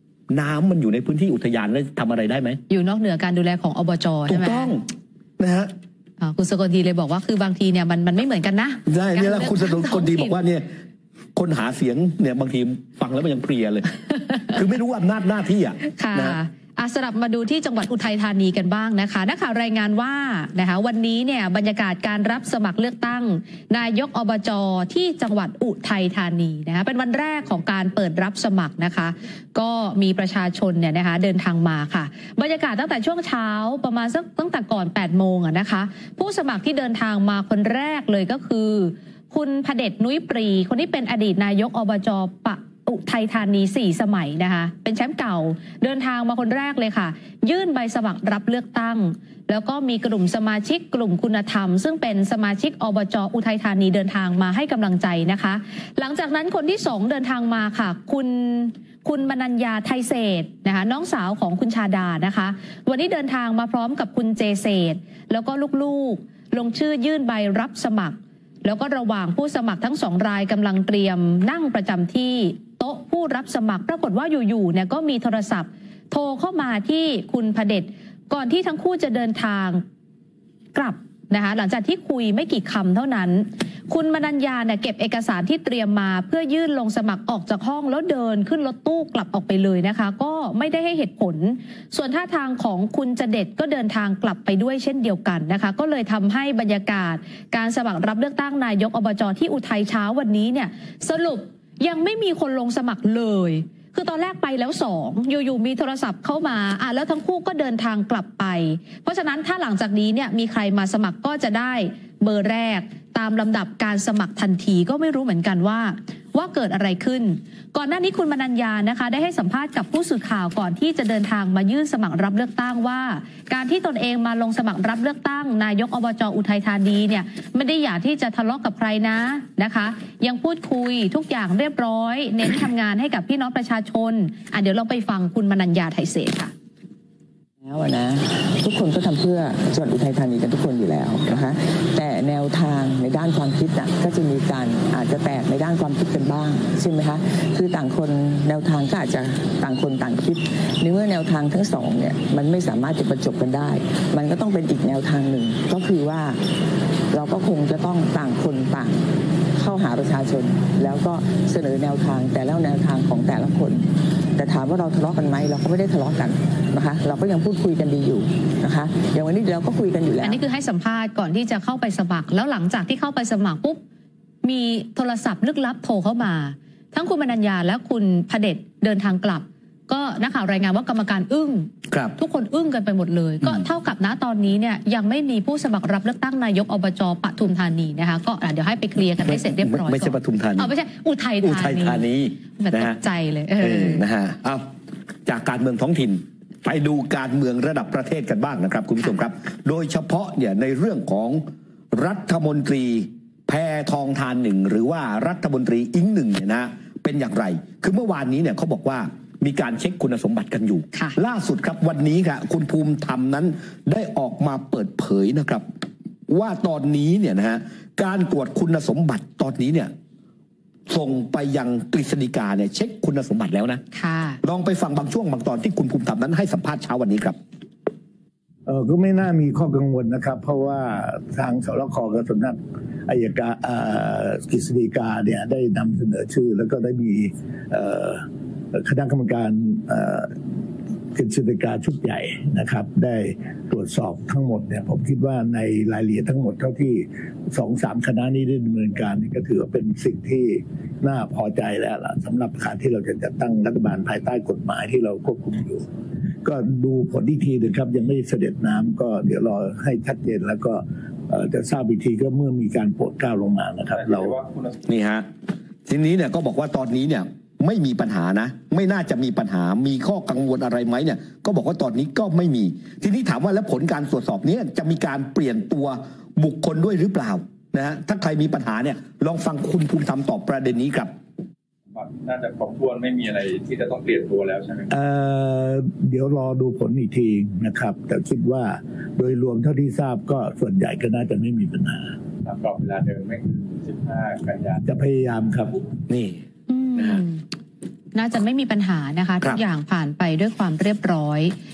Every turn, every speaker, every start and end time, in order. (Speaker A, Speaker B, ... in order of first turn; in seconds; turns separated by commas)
Speaker A: 0.3-2.6, Speaker B: 2.7-4.8, Speaker A: 4.3-4.8, Speaker A: 5.4-5.7, Speaker B: 6.2-10.4, Speaker A: 8.9-10.7, Speaker A: 11.3-13.9, Speaker A: 14.5-16.4, Speaker B: 15.9-79.8, Speaker B: 80.7-136.5, Speaker C: 137.6-156.4, Speaker C: 157.1-170.2, Speaker B: 170.2-173.8, Speaker B: 174.4-192.1, Speaker A: 181.9-182.2, Speaker A: 189.3-190.7, Speaker A: 191.4-193.0, Speaker B: 192.6-194.0, Speaker A: 193.6-194.7, Speaker A: 195.3-215.6, Speaker A: 216.3-219.9, Speaker A: 220.9-223.8, Speaker B: 223.9-224.4, Speaker A: 224.4-227.4, Speaker D: 228.7-240.3, Speaker D: 241.1-255.8, Speaker D: 256.4-264.4, Speaker E: 263.9-264.8, Speaker A: 264.9-265.3, Speaker A: 265.9-281.1, Speaker E: 281.9-284.9, Speaker D: 284.9-292.2, Speaker E: 292.4-294.8, Speaker D: 294.8-295.8, Speaker A: 296.1-296.4, Speaker B: 296.7-297.4, Speaker A: 297.0-297.2, Speaker B: 298.1-301.5